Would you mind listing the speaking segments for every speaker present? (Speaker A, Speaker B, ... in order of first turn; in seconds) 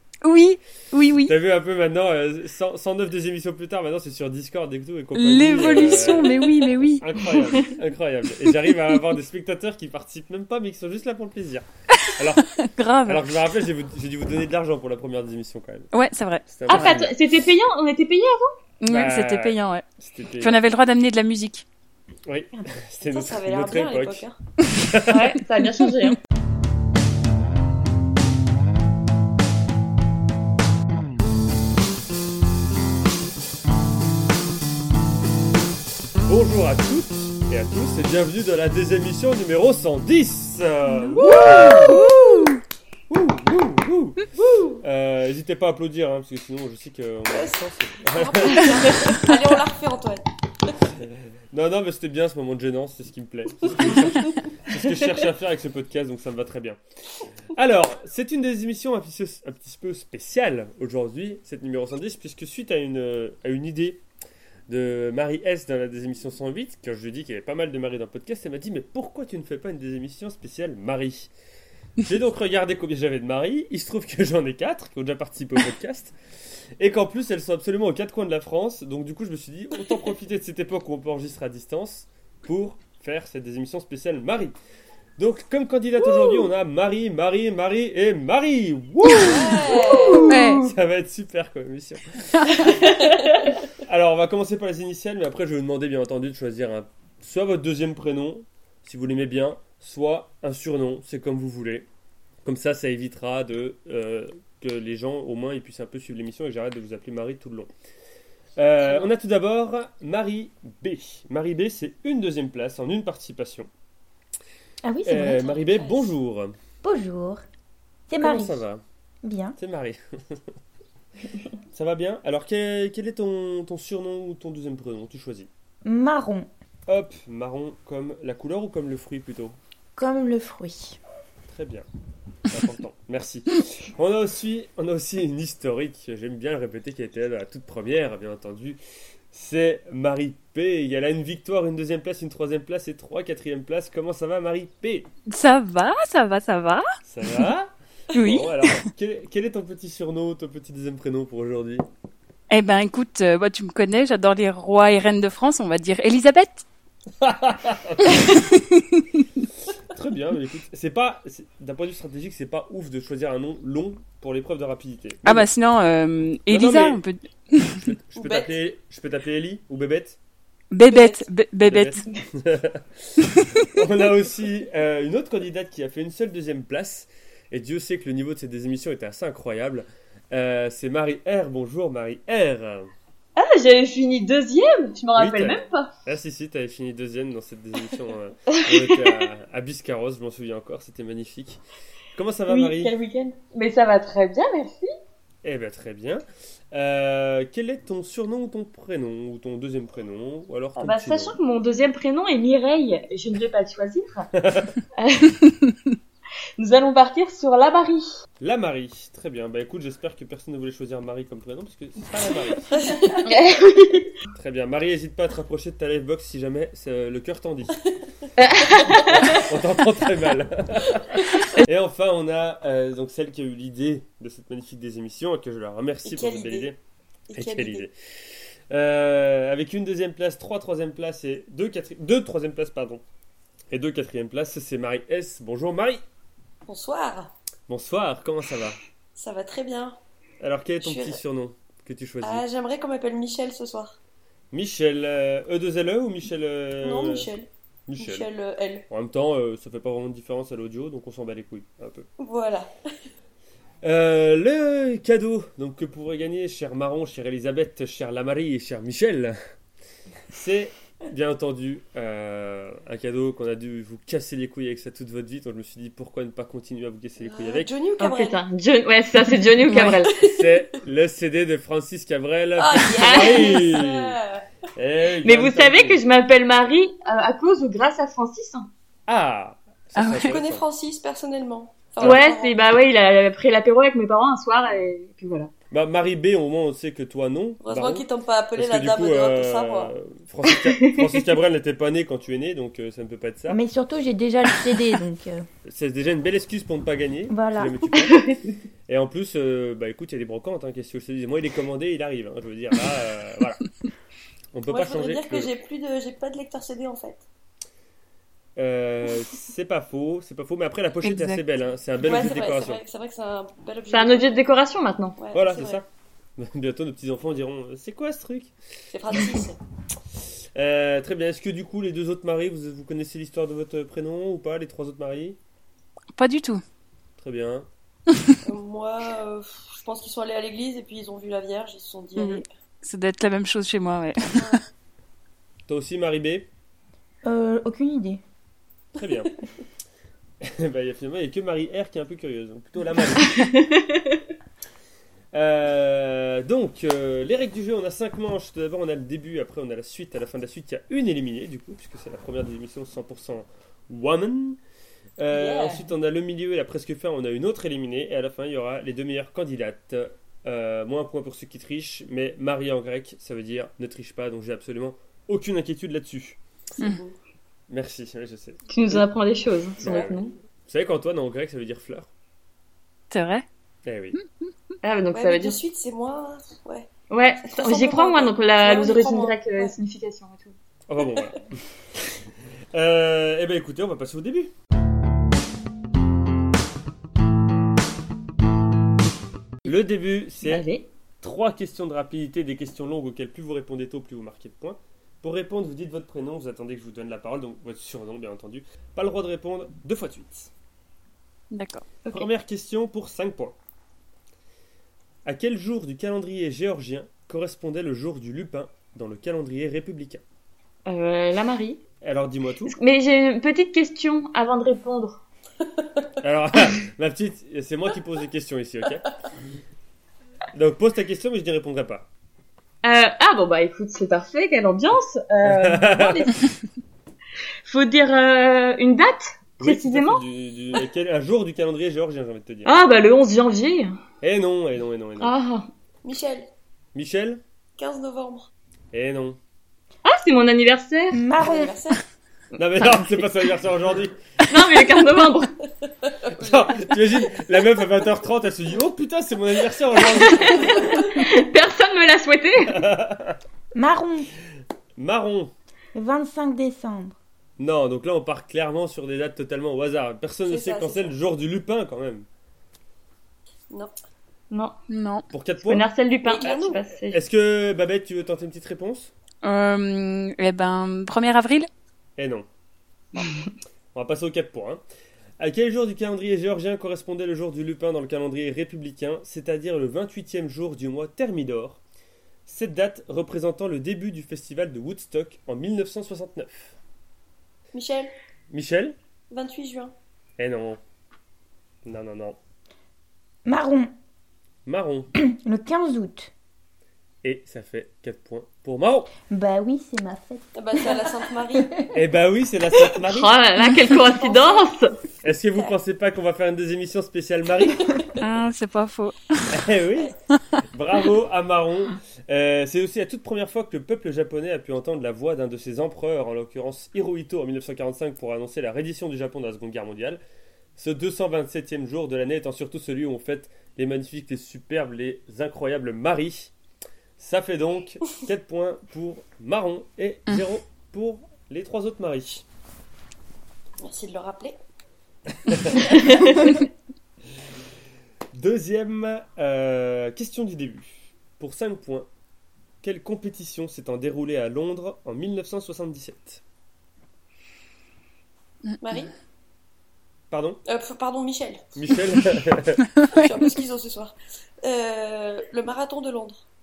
Speaker A: 0.2-1.3, 5.1-7.4, 11.9-13.3, 15.9-17.1, 18.8-19.9, 20.4-21.6, 40.9-42.6, 90.2-90.7, 145.3-147.4, 148.1-148.8, 152.5-156.6, 158.1-159.2, 165.2-167.9, 170.7-172.0, 173.3-173.6, 269.7-270.0, 279.9-280.4, 311.0-311.4, 326.1-326.6, 328.1-328.4, 332.1-334.6, 373.1-373.4, 374.1-374.5, 401.5-401.9, 464.9-465.3, 469.4-471.7, 508.1-509.7
Speaker B: 1.2-15.9, 16.4-17.2, 18.9-20.6, 22.3-25.4, 36.3-42.0, 43.1-44.2, 44.8-49.0, 51.0-56.8, 57.5-64.0, 64.7-71.3, 72.0-76.1, 76.8-84.5, 85.2-93.1, 93.8-101.9, 102.4-107.7, 108.6-113.7, 115.0-116.6, 118.2-118.8, 119.6-120.4, 121.7-125.5, 126.9-129.6, 131.5-131.8, 132.5-138.8, 139.3-145.1, 147.0-147.7, 148.2-151.8, 157.2-158.4, 159.9-165.5, 166.5-167.0, 167.7-170.2, 171.6-182.9, 185.2-191.6, 192.1-192.9, 195.4-201.4, 204.3-204.7, 208.4-212.7, 214.3-217.8, 218.9-226.8, 227.3-227.9, 228.7-233.0, 233.7-236.0, 237.7-238.8, 240.4-242.4, 244.5-247.3, 247.9-248.3, 248.9-252.1, 253.8-259.4, 260.3-267.7, 270.2-274.2, 274.8-276.0, 279.1-280.6, 285.7-293.6, 295.6-298.3, 298.9-303.6, 304.5-305.5, 308.6-312.8, 315.3-318.5, 320.5-325.4, 327.2-327.7, 335.7-336.5, 338.9-339.3, 340.4-343.4, 345.3-354.6, 355.2-366.4, 367.7-369.1, 369.8-372.1, 373.9-374.2, 380.9-381.6, 382.7-384.5, 389.6-390.6, 391.2-400.5, 402.1-403.6, 405.2-410.2, 412.0-412.7, 416.2-419.1, 420.5-422.1, 425.4-426.4, 429.6-432.7, 434.2-435.3, 436.9-437.4, 438.9-439.4, 442.6-444.2, 446.4-450.9, 452.7-453.4, 455.0-455.5, 457.6-462.2, 465.3-465.9, 467.1-469.1, 472.2-472.5, 473.9-474.8, 475.4-481.8, 482.4-486.7, 488.5-488.9, 490.4-490.8, 491.8-492.4, 494.6-495.1, 497.2-499.1, 501.9-503.4, 505.2-508.0, 509.5-520.2, 520.8-526.5, 527.2-532.4, 535.4-535.9, 538.3-542.1, 542.8-546.4, 550.3-550.6, 551.7-552.9
Speaker C: 16.7-18.6, 25.1-26.2, 90.0-90.4, 183.3-185.9, 188.6-189.2, 192.5-194.9, 200.8-204.3, 204.9-205.4, 206.6-208.1, 213.2-214.1, 218.4-219.4, 268.0-270.1, 273.0-273.8, 275.2-278.7, 282.0-285.5, 298.0-298.5, 313.9-315.2, 343.4-344.0, 368.7-370.3, 374.8-375.6, 377.1-380.5, 390.4-390.9, 410.9-411.8, 412.6-415.2, 422.8-426.4, 427.6-430.2, 432.6-434.0, 435.2-435.7, 440.0-441.2, 442.5-443.5, 444.5-445.5, 450.2-452.8, 464.5-464.8, 465.6-467.2, 502.9-505.0
Speaker D: 23.0-24.4, 41.2-42.0, 44.4-44.8, 47.3-50.7, 89.1-90.3, 93.0-93.3, 108.8-109.1, 115.3-116.1, 148.1-148.4, 168.2-168.5, 170.8-171.2, 212.7-213.3, 217.8-218.2, 226.0-226.7, 227.3-227.9, 236.7-237.3, 239.2-240.0, 240.8-241.2, 242.2-244.0, 246.8-248.8, 252.2-252.7, 267.2-268.4, 270.1-270.5, 272.6-274.4, 280.2-282.5, 287.6-289.9, 304.7-307.2, 312.0-314.4, 315.2-315.8, 318.9-319.6, 328.4-332.5, 355.3-355.9, 366.8-367.2, 375.1-376.9, 377.4-379.7, 381.0-381.3, 436.0-436.5, 437.8-438.5, 441.4-442.0, 445.8-447.3, 450.5-451.1, 460.4-461.1, 466.2-466.8, 487.7-488.1, 489.3-489.9, 500.5-501.7, 503.9-504.7, 507.9-508.2, 533.8-534.6, 535.9-536.5, 548.8-549.1, 550.6-551.7, 553.0-556.4
Speaker E: 114.8-115.5, 116.8-117.4, 118.1-118.6, 119.2-119.6, 125.8-126.5, 129.9-131.0, 293.5-295.4, 297.3-297.9, 337.2-338.2, 441.1-441.8, 453.7-454.3, 455.9-457.2, 493.4-493.9, 495.1-496.3, 499.3-501.8